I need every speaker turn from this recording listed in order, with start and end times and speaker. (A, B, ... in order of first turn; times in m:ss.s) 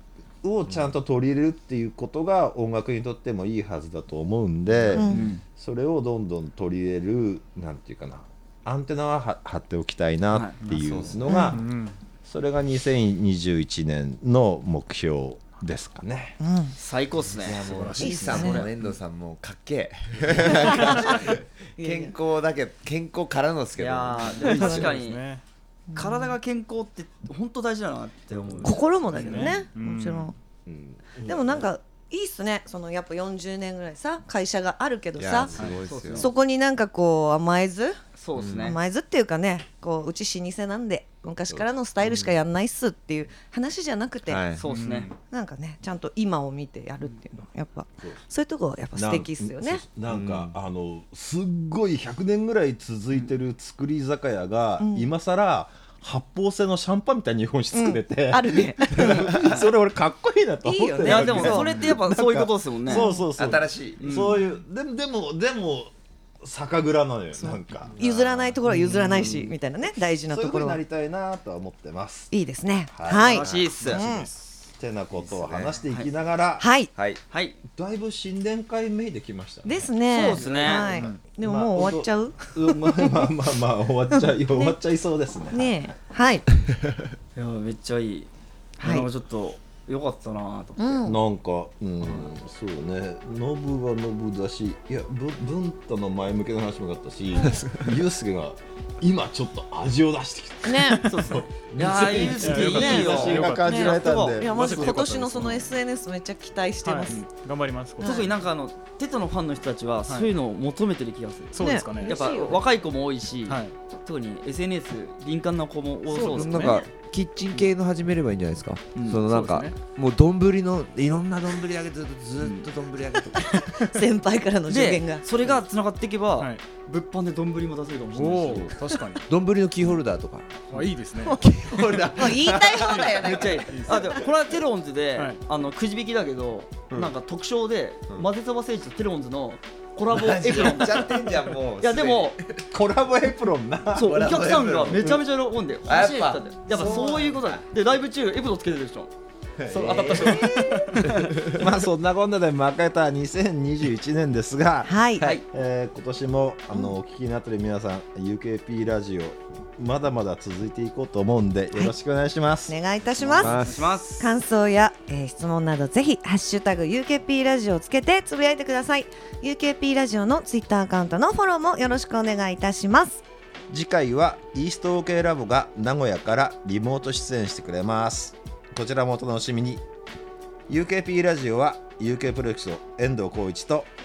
0:00.4-0:11.6 A
0:05.0-0:05.2 B
0:05.0-0:05.4 C
0:10.3-0:10.6 C
0:10.6-0:11.9 D
0:10.7-0:11.4 E
0:11.3-0:11.6 B
0:12.2-0:16.4 A
0:16.4-0:16.7 B
0:16.7-0:18.7 C
0:17.3-0:24.9 E
0:17.6-0:18.6 D
0:18.0-0:18.6 B
0:20.4-0:22.1 B
0:23.7-0:25.2 C
0:24.4-0:25.4 D
0:24.5-0:24.9 B
0:25.9-0:26.3 B
0:25.9-0:29.6 C
0:28.6-0:30.4 B
0:29.1-0:30.3 D
0:30.6-0:31.6 A
0:31.2-0:35.5 B
0:35.2-0:36.3 E
0:35.5-0:35.8 D
0:35.8-0:36.3 C
0:36.2-0:38.0 B
0:38.2-0:38.8 C
0:38.3-0:38.8 E
0:38.6-0:44.4 B
0:42.0-0:42.4 E
0:44.3-0:44.6 E
0:44.5-0:45.1 C
0:44.6-0:45.1 D
0:45.3-0:49.8 B
0:48.9-1:08.0 A
0:50.1-0:50.5 E
0:54.8-0:55.1 B
0:57.7-0:59.6 B
1:00.6-1:01.7 B
1:01.0-1:03.1 C
1:02.9-1:03.3 B
1:03.4-1:04.1 E
1:04.0-1:04.4 C
1:07.4-1:10.8 B
1:07.9-1:08.6 E
1:08.7-1:09.5 A
1:10.2-1:12.3 A
1:12.3-1:14.3 B
1:12.9-1:16.7 A
1:13.1-1:14.0 C
1:13.3-1:13.8 E
1:15.2-1:15.8 E
1:16.6-1:16.9 B
1:16.9-1:17.2 E
1:17.3-1:17.6 C
1:17.7-1:25.7 A
1:19.6-1:23.3 B
1:20.1-1:21.0 C
1:24.1-1:24.8 B
1:25.5-1:26.5 B
1:27.3-1:28.3 C
1:28.8-1:29.1 B
1:28.8-1:31.0 C
1:30.8-1:31.2 B
1:31.0-1:44.9 A
1:37.5-1:37.8 E
1:40.6-1:41.1 B
1:41.0-1:44.4 C
1:42.4-1:45.7 D
1:42.6-1:47.2 B
1:46.8-1:48.3 D
1:48.0-1:48.3 B
1:48.0-1:56.9 C
1:51.5-1:52.2 D
1:51.6-1:52.6 B
1:53.5-1:53.7 D
1:56.1-2:03.7 E
1:56.1-1:56.7 B
1:56.2-1:56.7 D
1:58.9-1:59.2 C
1:59.3-1:59.8 D
2:02.4-2:02.7 C
2:03.3-2:05.2 B
2:04.7-2:08.7 C
2:08.1-2:09.3 D
2:08.5-2:08.7 E
2:09.3-2:13.7 E
2:10.7-2:11.4 D
2:12.1-2:14.1 B
2:13.2-2:22.4 C
2:13.7-2:14.2 D
2:20.1-2:22.6 E
2:22.7-2:24.1 A
2:24.0-2:29.1 C
2:24.0-2:25.2 E
2:24.9-2:25.2 A
2:25.8-2:27.6 E
2:29.6-2:30.5 E
2:29.7-2:42.8 A
2:29.7-2:31.3 C
2:31.0-2:31.7 E
2:34.9-2:35.4 B
2:42.7-2:43.5 B
2:43.2-2:44.3 C
2:43.4-2:44.0 E
2:44.2-2:53.2 B
2:53.7-2:59.8 A
3:00.7-3:03.9 A